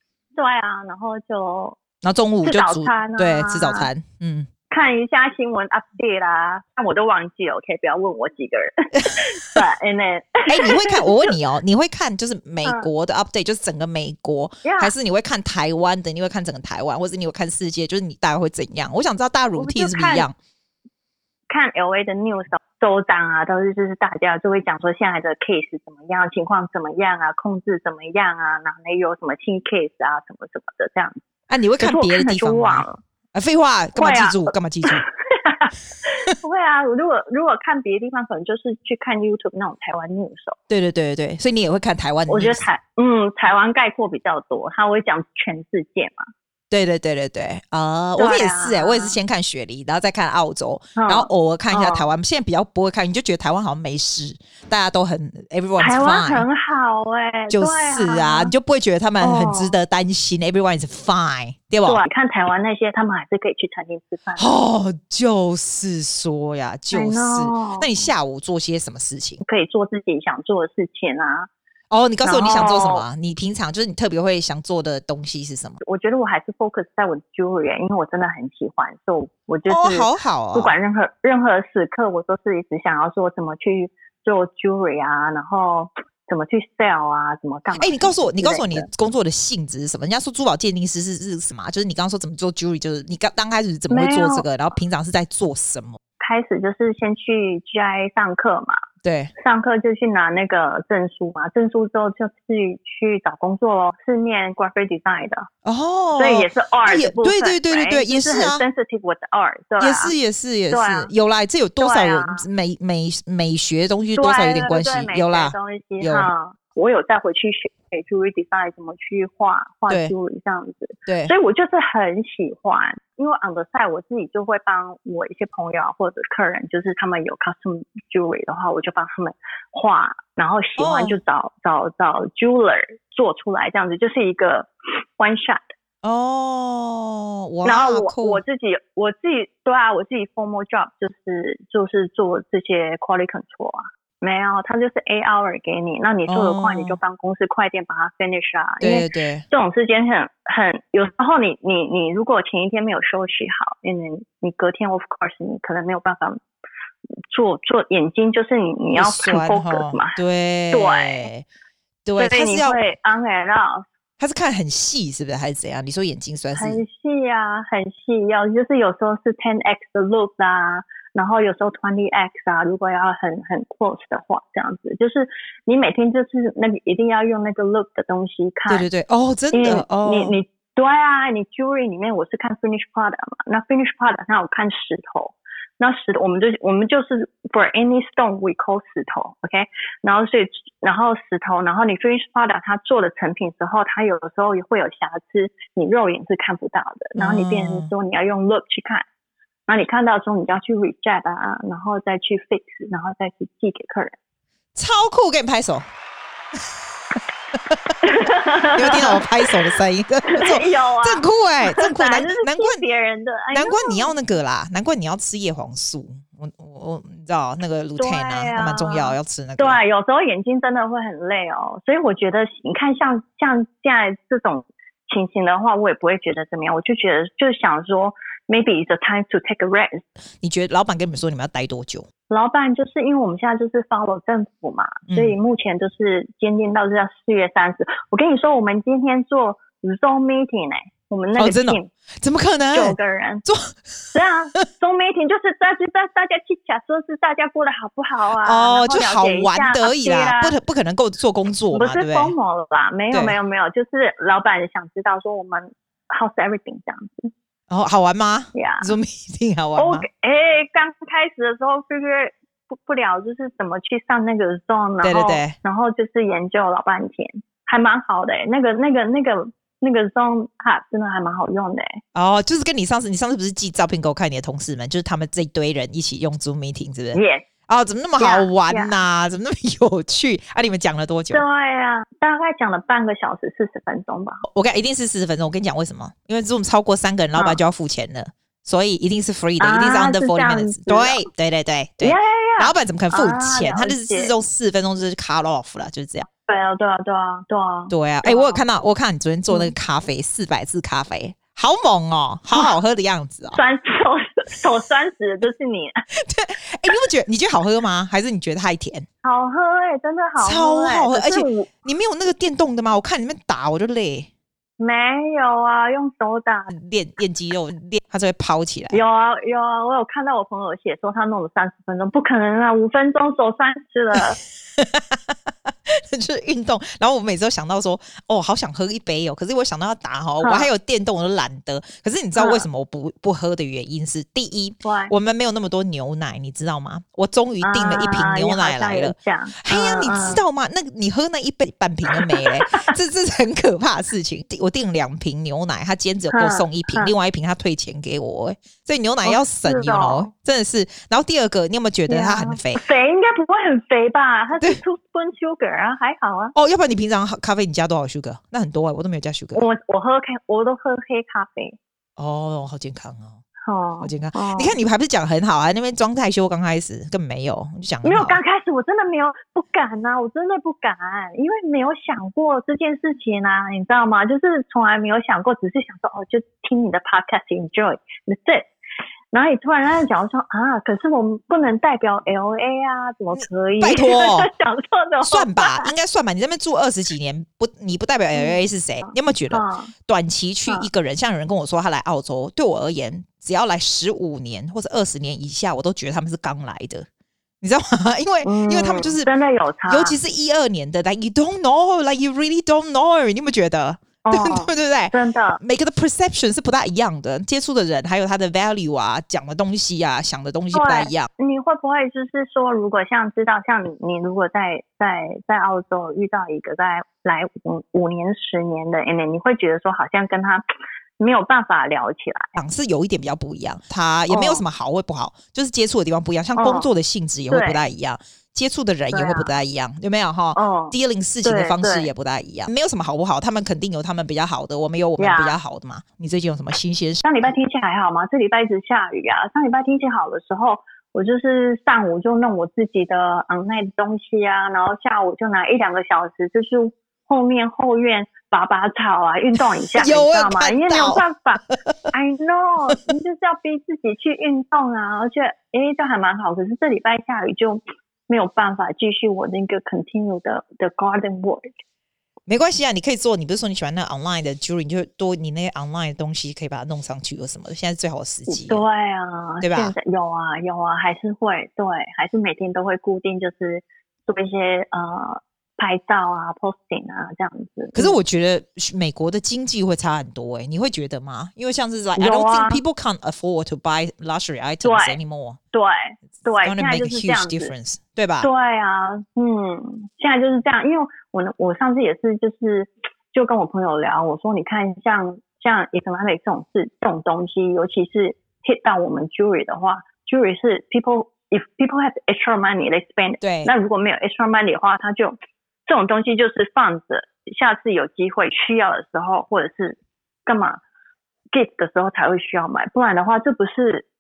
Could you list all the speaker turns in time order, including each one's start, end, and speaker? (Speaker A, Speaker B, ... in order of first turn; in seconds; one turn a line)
Speaker A: 0.4-1.8
Speaker B: 2.0-4.5
Speaker A: 2.4-3.9
Speaker A: 4.7-11.3
Speaker B: 9.0-9.6
Speaker B: 10.5-20.4
Speaker A: 14.6-14.9
Speaker A: 19.6-20.3
Speaker A: 21.5-31.2
Speaker B: 31.5-35.0
Speaker A: 31.8-33.0
Speaker A: 34.0-40.6
Speaker B: 40.7-42.6
Speaker A: 42.3-46.3
Speaker B: 46.7-56.5
Speaker A: 48.2-49.2
Speaker A: 51.0-52.0
Speaker A: 55.8-58.5
Speaker B: 57.5-62.0
Speaker A: 59.2-59.8
Speaker A: 61.8-64.5
Speaker B: 64.4-69.4
Speaker A: 66.9-67.9
Speaker A: 69.4-71.5
Speaker B: 71.9-75.8
Speaker A: 72.2-73.0
Speaker A: 75.8-88.9
Speaker B: 79.7-80.8
Speaker B: 87.8-96.0
Speaker A: 93.9-94.5
Speaker A: 96.2-98.8
Speaker B: 99.0-99.3
Speaker A: 99.4-105.5
Speaker B: 105.6-108.6
Speaker A: 106.2-110.1
Speaker B: 109.8-116.3
Speaker A: 110.7-111.1
Speaker A: 111.8-112.5
Speaker A: 114.2-135.7
Speaker B: 121.1-121.3
Speaker B: 130.8-131.2
Speaker B: 136.0-138.4
Speaker A: 137.6-156.4
Speaker B: 146.3-147.0
Speaker B: 148.8-149.4
Speaker A: 157.3-160.2
Speaker B: 158.9-161.5
Speaker A: 160.7-161.3
Speaker B: 162.1-162.8
Speaker A: 162.2-163.8
Speaker B: 164.2-166.8
Speaker A: 166.5-178.9
Speaker B: 178.7-180.4
Speaker A: 179.5-199.1
Speaker B: 197.2-197.9
Speaker A: 199.7-204.2
Speaker B: 204.8-205.8
Speaker B: 207.5-207.9
Speaker A: 208.0-209.2
Speaker B: 208.7-212.8
Speaker A: 210.3-214.1
Speaker B: 213.5-219.8
Speaker A: 218.0-230.1
Speaker B: 230.4-232.1
Speaker A: 232.3-241.9
Speaker B: 235.1-235.4
Speaker B: 241.3-243.8
Speaker A: 242.7-243.4
Speaker A: 244.1-250.6
Speaker B: 248.4-252.3
Speaker A: 251.7-257.3
Speaker B: 257.7-260.1
Speaker A: 258.6-259.0
Speaker A: 259.8-272.0
Speaker B: 265.0-265.6
Speaker B: 272.1-281.4
Speaker A: 277.1-277.5
Speaker A: 278.2-279.0
Speaker A: 281.3-284.4
Speaker B: 284.5-296.3
Speaker A: 289.6-291.3
Speaker A: 292.0-294.3
Speaker A: 296.5-298.6
Speaker B: 297.9-303.6
Speaker A: 299.5-299.7
Speaker A: 303.5-306.0
Speaker B: 306.1-309.1
Speaker A: 309.2-311.7
Speaker B: 310.4-314.3
Speaker A: 314.8-316.7
Speaker B: 316.7-319.0
Speaker A: 318.9-324.4
Speaker B: 324.8-352.8
Speaker A: 330.4-330.7
Speaker A: 332.4-332.6
Speaker A: 334.8-335.1
Speaker A: 337.6-340.4
Speaker A: 342.1-342.9
Speaker A: 346.3-347.1
Speaker A: 349.2-350.3
Speaker A: 352.1-356.6
Speaker B: 356.6-359.7
Speaker A: 359.6-361.8
Speaker B: 362.2-363.4
Speaker A: 363.7-364.8
Speaker B: 364.0-368.4
Speaker A: 368.0-378.7
Speaker A: 379.3-385.9
Speaker B: 383.3-384.5
Speaker B: 385.3-397.1
Speaker A: 388.3-389.9
Speaker B: 397.6-399.3
Speaker A: 398.4-400.2
Speaker B: 399.9-411.3
Speaker A: 404.2-405.6
Speaker A: 410.7-420.6
Speaker A: 421.2-422.5
Speaker B: 422.6-437.5
Speaker A: 424.3-424.6
Speaker A: 426.6-426.9
Speaker A: 427.5-427.8
Speaker A: 429.1-429.5
Speaker A: 430.6-432.1
Speaker A: 435.2-435.6
Speaker A: 437.2-461.7
Speaker B: 449.9-451.2
Speaker B: 462.5-468.8
Speaker A: 468.5-478.2
Speaker B: 469.6-469.9
Speaker B: 477.9-485.6
Speaker A: 482.2-482.8
Speaker A: 484.8-485.2
Speaker A: 485.7-487.7
Speaker B: 486.6-488.5
Speaker A: 488.4-510.8
Speaker B: 503.4-503.7
Speaker A: 511.5-514.1